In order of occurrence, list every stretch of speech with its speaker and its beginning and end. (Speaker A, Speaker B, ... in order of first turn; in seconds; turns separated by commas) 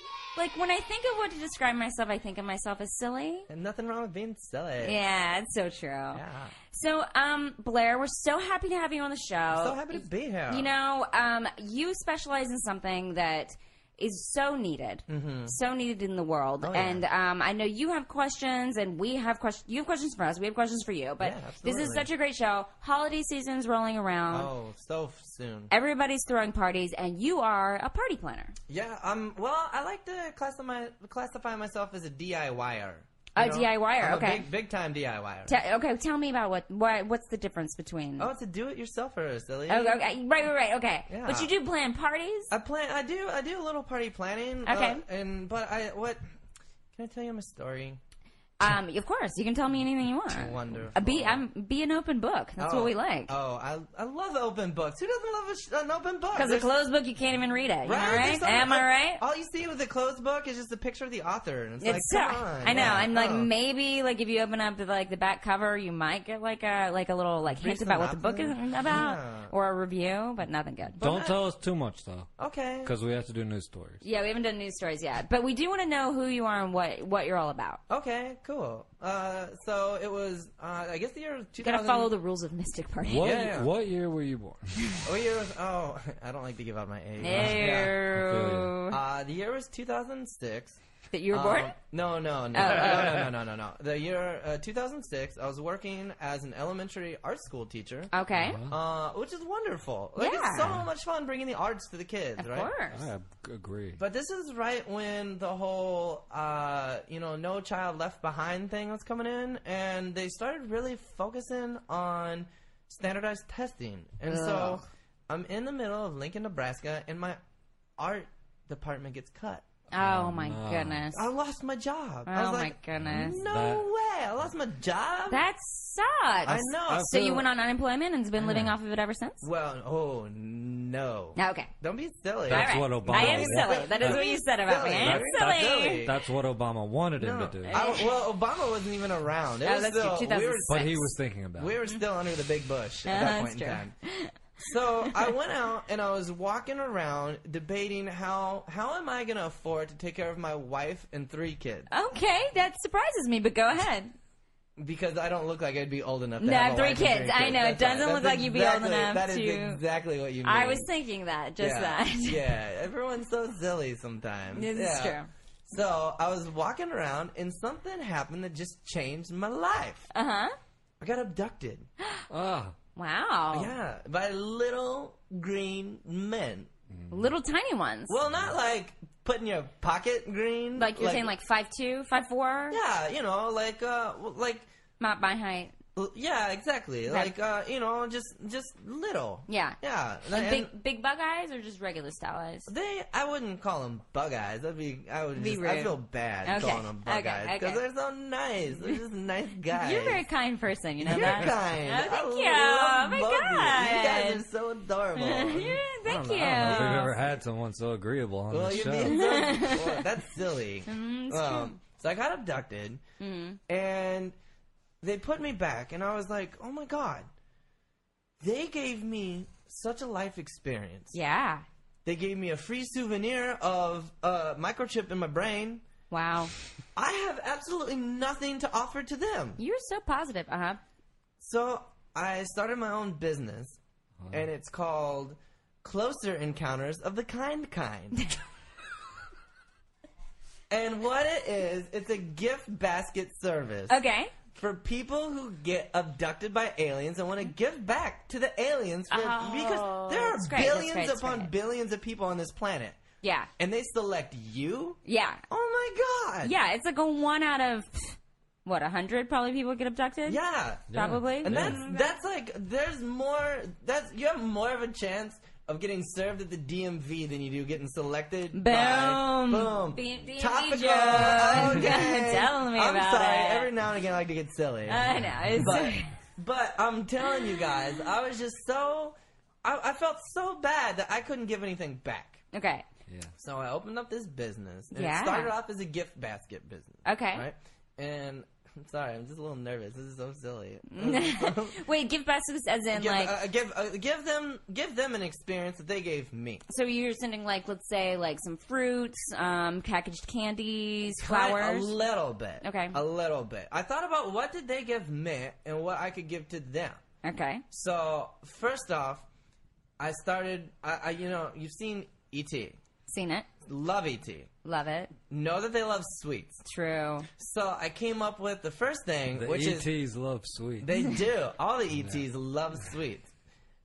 Speaker A: 0.3-3.5, Speaker B: 3.5-5.0, Speaker A: 4.8-24.5, Speaker B: 6.1-6.5, Speaker B: 9.5-10.7, Speaker B: 15.1-15.6, Speaker B: 16.6-17.0, Speaker B: 21.2-22.1, Speaker B: 24.3-25.7, Speaker A: 25.7-28.5, Speaker B: 28.7-35.5, Speaker A: 33.3-34.5, Speaker A: 35.5-38.3, Speaker B: 38.2-40.0, Speaker A: 39.7-42.5, Speaker B: 41.1-41.5, Speaker B: 42.5-46.2, Speaker A: 44.6-45.0, Speaker B: 46.9-48.0, Speaker A: 48.6-53.3, Speaker B: 50.3-51.4, Speaker B: 52.6-56.7, Speaker A: 56.3-59.2, Speaker B: 57.8-63.5, Speaker A: 61.8-71.0, Speaker B: 67.4-69.5, Speaker B: 71.0-71.4, Speaker C: 71.0-72.3, Speaker B: 72.4-72.9, Speaker C: 72.8-74.0, Speaker A: 74.0-77.8, Speaker B: 77.9-82.1, Speaker A: 81.6-83.4, Speaker C: 83.0-84.8, Speaker B: 83.2-83.7, Speaker B: 85.0-88.0, Speaker A: 87.2-89.0, Speaker C: 87.3-88.8, Speaker B: 88.9-98.1, Speaker A: 91.1-91.8, Speaker A: 92.5-93.2, Speaker C: 92.9-93.2, Speaker A: 98.1-98.6, Speaker C: 98.3-98.7, Speaker B: 98.7-102.7, Speaker A: 100.2-100.8, Speaker A: 102.4-103.0, Speaker C: 102.9-104.0, Speaker B: 104.0-117.4, Speaker A: 114.3-114.8, Speaker B: 118.0-119.6, Speaker A: 119.9-121.2, Speaker C: 120.0-121.1, Speaker B: 121.1-125.4, Speaker A: 122.3-123.4, Speaker C: 123.0-123.9, Speaker A: 125.3-129.4, Speaker B: 126.4-127.1, Speaker C: 126.9-127.4, Speaker C: 128.4-128.7, Speaker B: 129.4-136.1, Speaker A: 131.3-131.7, Speaker C: 132.5-134.2, Speaker A: 132.5-136.1, Speaker C: 134.9-137.8, Speaker B: 137.2-141.0, Speaker A: 137.7-138.1, Speaker A: 139.6-141.0, Speaker C: 140.7-141.8, Speaker B: 141.6-143.9, Speaker A: 143.1-144.3, Speaker B: 144.6-151.9, Speaker A: 151.9-154.1, Speaker B: 154.8-160.9, Speaker A: 156.4-159.8, Speaker A: 160.4-162.5, Speaker B: 161.6-170.1, Speaker A: 164.5-165.3, Speaker A: 170.1-170.5, Speaker B: 171.0-171.9, Speaker C: 172.3-172.7, Speaker A: 172.9-173.7, Speaker B: 173.5-176.7, Speaker C: 176.9-177.3, Speaker A: 177.1-178.2, Speaker B: 178.1-181.3, Speaker A: 180.8-182.8, Speaker B: 182.7-184.7, Speaker A: 185.0-185.7, Speaker B: 185.9-190.7, Speaker A: 187.1-187.3, Speaker A: 189.5-192.7, Speaker B: 192.7-200.2, Speaker A: 195.3-197.8, Speaker A: 199.7-204.4, Speaker B: 201.0-205.8, Speaker C: 201.1-201.5, Speaker A: 205.2-207.1, Speaker C: 206.1-209.4, Speaker B: 206.6-207.2, Speaker B: 208.5-213.0, Speaker A: 209.0-210.0, Speaker A: 210.8-211.8, Speaker A: 213.2-213.6, Speaker B: 213.7-214.3, Speaker B: 215.0-217.3, Speaker B: 218.4-221.2, Speaker A: 221.1-221.6, Speaker B: 222.0-225.8, Speaker A: 226.1-226.5, Speaker B: 226.9-229.6, Speaker A: 229.6-230.8, Speaker B: 231.4-233.8, Speaker C: 234.2-234.5, Speaker B: 234.3-238.2, Speaker B: 240.7-244.0, Speaker A: 243.9-244.3, Speaker B: 244.5-253.0, Speaker A: 249.1-251.5, Speaker A: 253.2-253.5, Speaker B: 253.6-255.0, Speaker A: 255.0-255.4, Speaker B: 255.5-256.5, Speaker A: 256.4-260.4, Speaker B: 260.2-282.4, Speaker C: 260.9-261.8, Speaker A: 260.9-262.1, Speaker A: 268.5-273.7, Speaker A: 274.9-276.1, Speaker A: 282.5-282.8, Speaker B: 283.4-291.8, Speaker A: 284.9-285.5, Speaker A: 287.0-287.5, Speaker A: 290.9-293.4, Speaker B: 292.9-296.6, Speaker A: 296.7-301.9, Speaker B: 301.0-307.0, Speaker A: 302.6-303.0, Speaker A: 307.2-307.6, Speaker B: 307.7-309.2, Speaker B: 310.0-312.8, Speaker A: 313.1-313.5, Speaker B: 313.6-314.5, Speaker A: 314.6-315.1, Speaker B: 315.3-316.6, Speaker A: 316.6-317.3, Speaker B: 317.4-319.9, Speaker C: 319.3-320.9, Speaker B: 320.8-323.3, Speaker C: 321.9-322.2